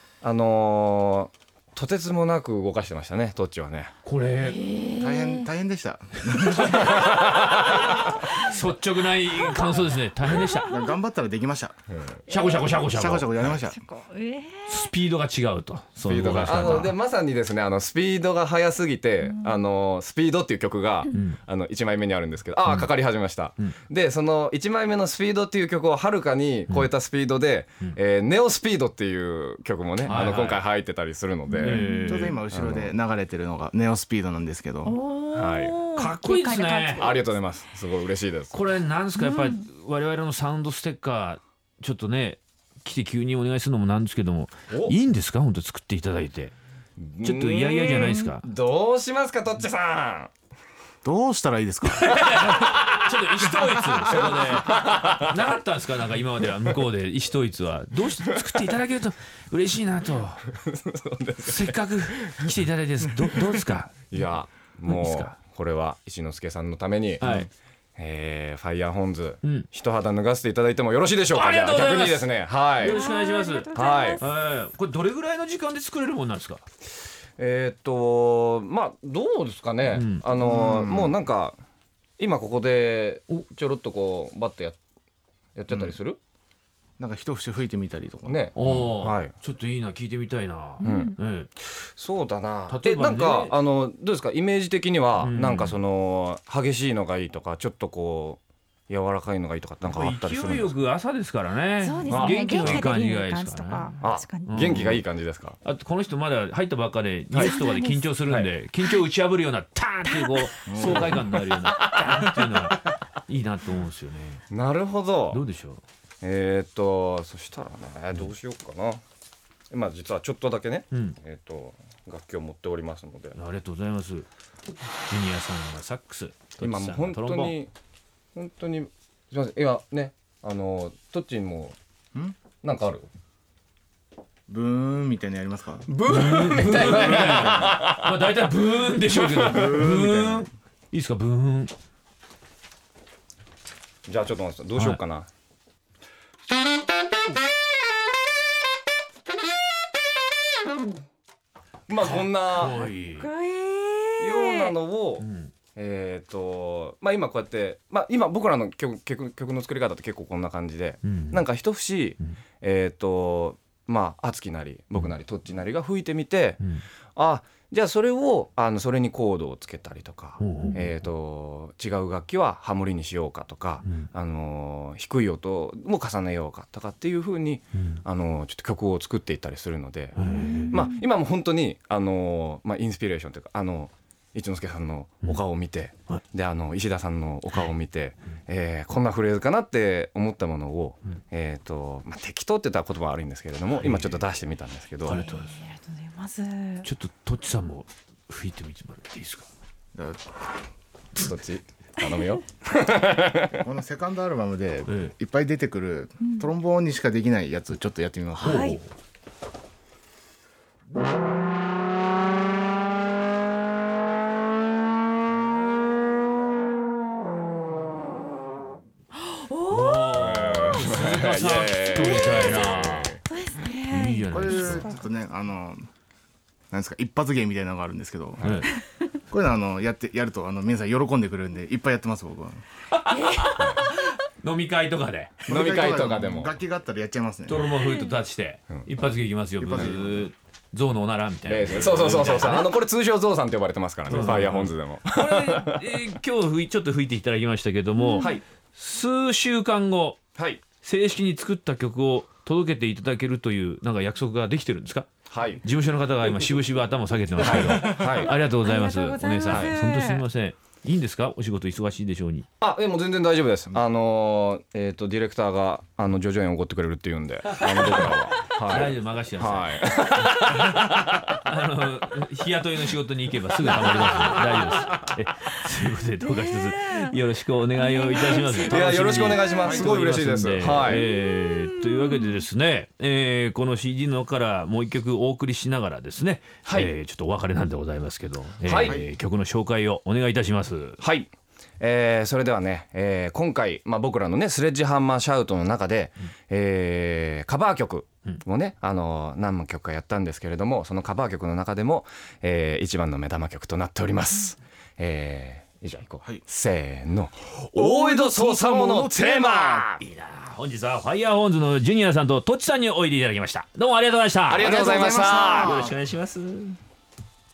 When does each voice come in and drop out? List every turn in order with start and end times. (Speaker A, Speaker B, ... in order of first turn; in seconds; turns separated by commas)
Speaker A: 0.2-3.9, Speaker B: 4.0-4.6, Speaker C: 4.4-5.5, Speaker D: 5.0-6.8, Speaker A: 6.6-7.5, Speaker B: 6.8-10.8, Speaker C: 6.8-7.2, Speaker D: 10.3-11.8, Speaker C: 10.4-10.8, Speaker B: 12.3-13.6, Speaker C: 12.3-12.7, Speaker D: 12.7-13.8, Speaker C: 13.6-14.9, Speaker B: 14.7-16.9, Speaker A: 16.1-31.9, Speaker C: 19.2-19.6, Speaker B: 30.0-30.6, Speaker B: 31.6-32.4, Speaker C: 31.6-32.3, Speaker D: 31.9-35.0, Speaker A: 32.5-33.0, Speaker C: 34.9-37.3, Speaker A: 35.3-35.8, Speaker B: 36.0-37.1, Speaker A: 37.0-38.6, Speaker B: 38.5-46.5, Speaker C: 39.2-39.6, Speaker A: 44.7-45.0, Speaker A: 47.0-50.3, Speaker B: 47.2-48.5, Speaker D: 51.0-52.2, Speaker B: 51.9-60.5, Speaker A: 54.0-55.2, Speaker A: 60.5-62.5, Speaker B: 61.4-64.0, Speaker A: 64.1-73.0, Speaker B: 64.9-65.4, Speaker B: 67.2-67.5, Speaker B: 71.3-72.3, Speaker B: 72.8-76.7, Speaker C: 72.8-74.2, Speaker A: 73.7-74.2, Speaker A: 77.4-81.6, Speaker B: 79.9-80.2, Speaker D: 80.4-81.2, Speaker A: 82.2-84.8, Speaker A: 85.5-86.2, Speaker D: 87.0-88.8, Speaker A: 88.2-89.3, Speaker B: 88.5-91.5, Speaker C: 90.8-91.2, Speaker A: 90.8-91.1, Speaker A: 91.8-100.7, Speaker B: 92.7-93.5, Speaker B: 95.2-95.8, Speaker B: 99.9-103.9, Speaker C: 101.8-104.8, Speaker A: 102.1-102.9, Speaker A: 104.0-105.6, Speaker B: 104.5-105.0, Speaker B: 105.6-114.4, Speaker C: 107.4-108.1, Speaker D: 110.7-111.4, Speaker A: 110.8-111.1, Speaker A: 111.7-112.3, Speaker A: 114.5-115.4, Speaker B: 115.3-115.8, Speaker A: 116.2-119.0, Speaker A: 119.7-123.4, Speaker B: 120.9-121.2, Speaker B: 123.3-124.3, Speaker B: 125.1-127.6, Speaker A: 126.6-127.7, Speaker A: 128.3-131.8, Speaker A: 132.6-133.1, Speaker D: 134.5-135.9, Speaker A: 135.9-138.2, Speaker B: 136.1-141.7, Speaker A: 139.1-139.9, Speaker D: 139.5-140.4, Speaker A: 144.1-145.3, Speaker A: 151.9-152.8, Speaker B: 152.0-153.3, Speaker C: 152.6-154.8, Speaker A: 154.2-166.6, Speaker B: 155.2-155.5, Speaker B: 161.0-161.4, Speaker A: 167.2-195.2, Speaker B: 170.4-170.8, Speaker B: 180.2-180.8, Speaker C: 180.3-181.0, Speaker B: 193.8-194.2, Speaker B: 195.1-195.5, Speaker C: 195.1-196.9, Speaker B: 196.8-199.5, Speaker D: 199.9-200.2, Speaker A: 201.2-203.6, Speaker D: 203.6-208.8, Speaker B: 204.9-205.1, Speaker C: 206.2-206.5, Speaker C: 208.4-208.8, Speaker B: 208.4-208.9, Speaker C: 219.2-220.1, Speaker B: 219.7-223.2, Speaker A: 220.2-223.2, Speaker C: 222.0-222.4, Speaker C: 223.3-225.0, Speaker B: 223.9-224.9, Speaker D: 224.3-225.9, Speaker D: 226.7-228.4, Speaker A: 228.4-228.7, Speaker B: 228.4-228.7, Speaker D: 229.3-232.6, Speaker B: 232.9-235.5, Speaker C: 233.1-233.9, Speaker A: 235.5-236.5, Speaker D: 235.5-237.7, Speaker B: 237.5-242.7, Speaker D: 239.6-240.3, Speaker A: 241.4-245.9, Speaker B: 244.1-250.2, Speaker C: 248.0-248.3, Speaker A: 248.2-248.4, Speaker A: 250.4-250.6, Speaker B: 250.8-255.1, Speaker A: 255.3-255.6, Speaker B: 255.6-262.5, Speaker A: 257.4-258.4, Speaker C: 257.8-260.2, Speaker A: 259.5-259.7, Speaker A: 262.6-271.2, Speaker B: 268.7-269.8, Speaker B: 271.4-291.0, Speaker C: 276.4-277.1, Speaker C: 277.8-278.6, Speaker A: 278.4-281.1, Speaker C: 279.3-279.9, Speaker C: 281.6-282.3, Speaker A: 286.7-286.9, Speaker A: 288.6-289.0, Speaker A: 291.0-310.0, Speaker D: 307.8-309.9, Speaker B: 310.0-314.7, Speaker A: 314.5-315.8, Speaker D: 314.6-316.0, Speaker B: 315.6-316.8